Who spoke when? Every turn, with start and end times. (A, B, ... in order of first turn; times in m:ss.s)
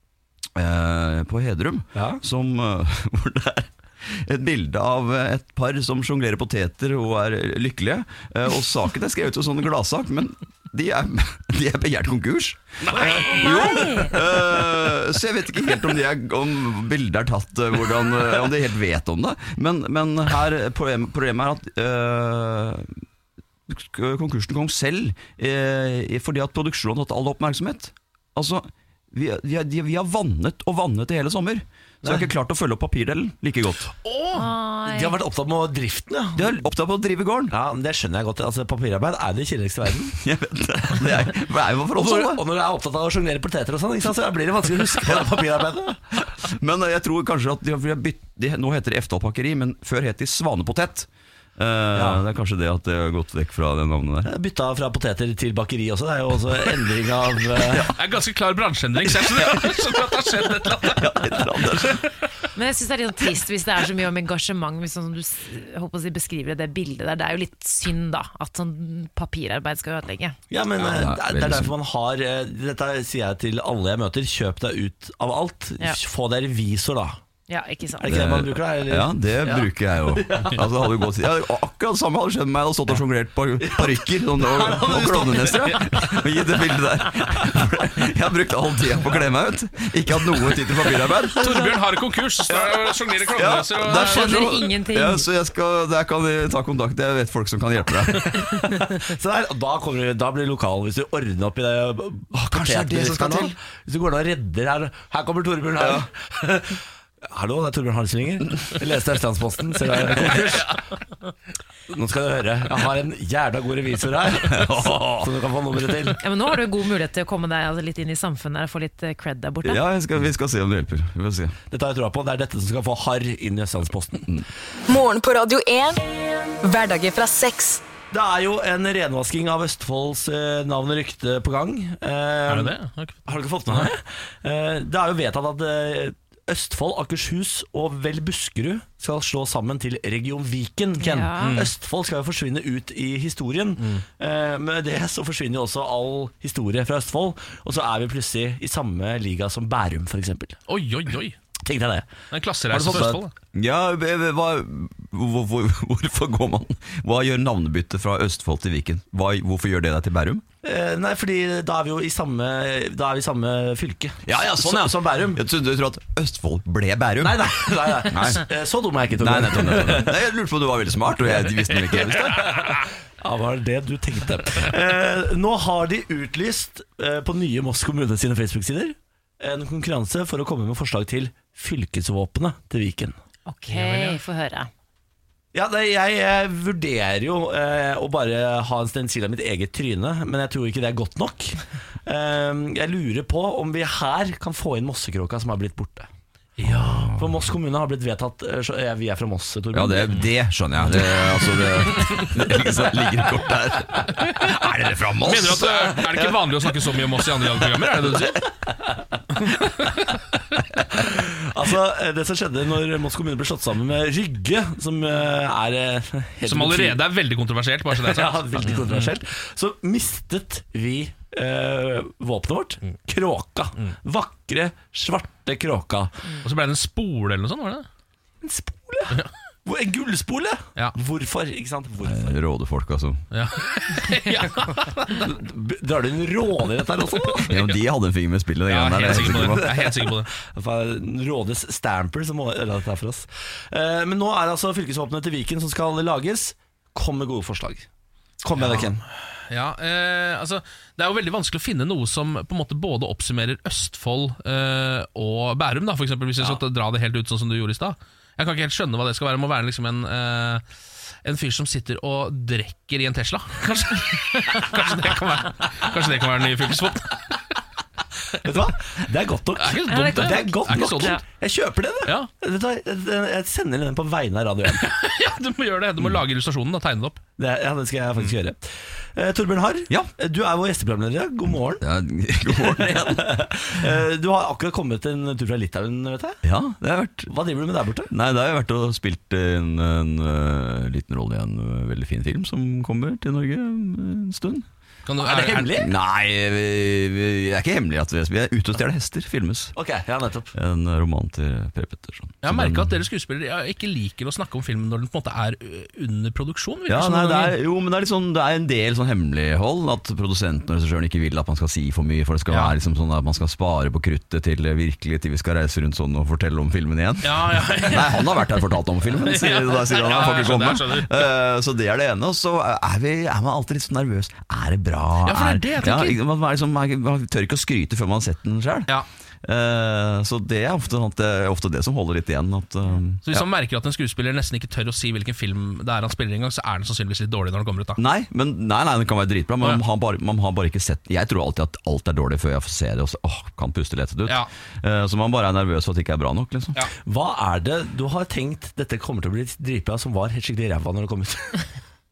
0:00.6-0:23.0 A
0:02.0-0:02.2 B
0:13.3-0:14.2 C
0:23.7-0:33.9 A
0:34.1-0:34.4 D
0:34.3-0:35.2 C
0:34.8-0:36.6 B
0:36.4-0:37.5 A
0:37.5-0:40.2 B
0:40.2-0:42.4 A
0:42.0-0:46.0 B
0:45.0-0:45.4 A
0:46.4-0:54.3 A
0:51.9-0:52.2 B
0:54.2-0:57.9 B
0:57.7-0:58.0 A
0:57.9-1:01.9 D
0:59.3-0:59.7 A
1:00.8-1:02.0 A
1:02.6-1:10.4 C
1:10.5-1:17.2 B
1:10.8-1:11.7 A
1:17.5-1:18.1 C
1:18.0-1:20.6 B
1:18.0-1:31.6 A
1:23.6-1:26.0 B
1:31.4-1:34.5 D
1:32.5-1:38.4 A
1:34.0-1:35.2 C
1:38.1-1:50.8 B
1:42.5-1:43.6 A
1:45.8-1:46.1 A
1:50.2-1:50.6 A
1:51.9-1:56.2 B
1:54.4-1:55.3 A
1:56.2-1:59.8 C
1:59.6-2:01.6 A
2:01.7-2:04.3 B
2:04.9-2:06.0 E
2:06.6-2:07.8 E
2:08.1-2:30.6 B
2:12.5-2:13.9 D
2:21.0-2:21.6 C
2:21.4-2:21.7 D
2:30.7-2:31.4 D
2:31.6-2:32.1 B
2:32.3-2:33.3 D
2:32.7-2:33.2 B
2:33.6-2:40.4 A
2:40.6-2:45.4 B
2:44.2-2:48.5 A
2:47.2-2:50.2 B
2:49.1-2:52.6 A
2:52.4-3:03.2 B
3:03.5-3:04.7 C
3:03.7-3:04.2 D
3:05.5-3:16.1 B
3:16.6-3:17.1 D
3:16.8-3:17.3 A
3:17.2-3:20.1 B
3:19.7-3:26.3 A
3:22.0-3:22.3 D
3:24.3-3:24.6 D
3:25.2-3:28.4 D
3:29.6-3:30.0 D
3:30.9-3:37.0 B
3:36.4-3:39.1 D
3:37.9-3:46.1 B
3:46.4-3:47.9 D
3:48.4-3:52.4 B
3:52.0-3:53.2 A
3:53.3-3:55.3 D
3:55.2-3:57.5 B
3:57.4-3:59.8 A
3:57.5-3:57.8 D
3:58.7-4:00.3 D
3:59.2-4:07.9 B
4:08.4-4:09.0 B
4:08.6-4:08.9 D
4:09.5-4:20.6 D
4:21.2-4:27.4 D
4:28.4-4:34.9 B
4:29.6-4:31.2 D
4:29.9-4:31.2 C
4:32.0-4:32.3 D
4:34.8-4:37.2 D
4:37.4-4:41.8 B
4:41.8-4:43.9 A
4:42.5-4:46.4 B
4:46.4-4:47.3 A
4:47.3-4:48.1 B
4:48.1-4:54.7 A
4:55.1-4:55.8 D
4:55.2-4:55.9 B
4:55.7-4:59.7 A
4:59.8-5:00.5 B
5:00.5-5:03.0 A
5:02.4-5:07.6 D
5:06.9-5:28.9 A
5:12.5-5:12.8 D
5:17.2-5:21.3 D
5:25.2-5:26.2 D
5:29.4-5:33.5 A
5:33.2-5:38.0 D
5:38.0-5:46.8 A
5:47.0-5:51.6 B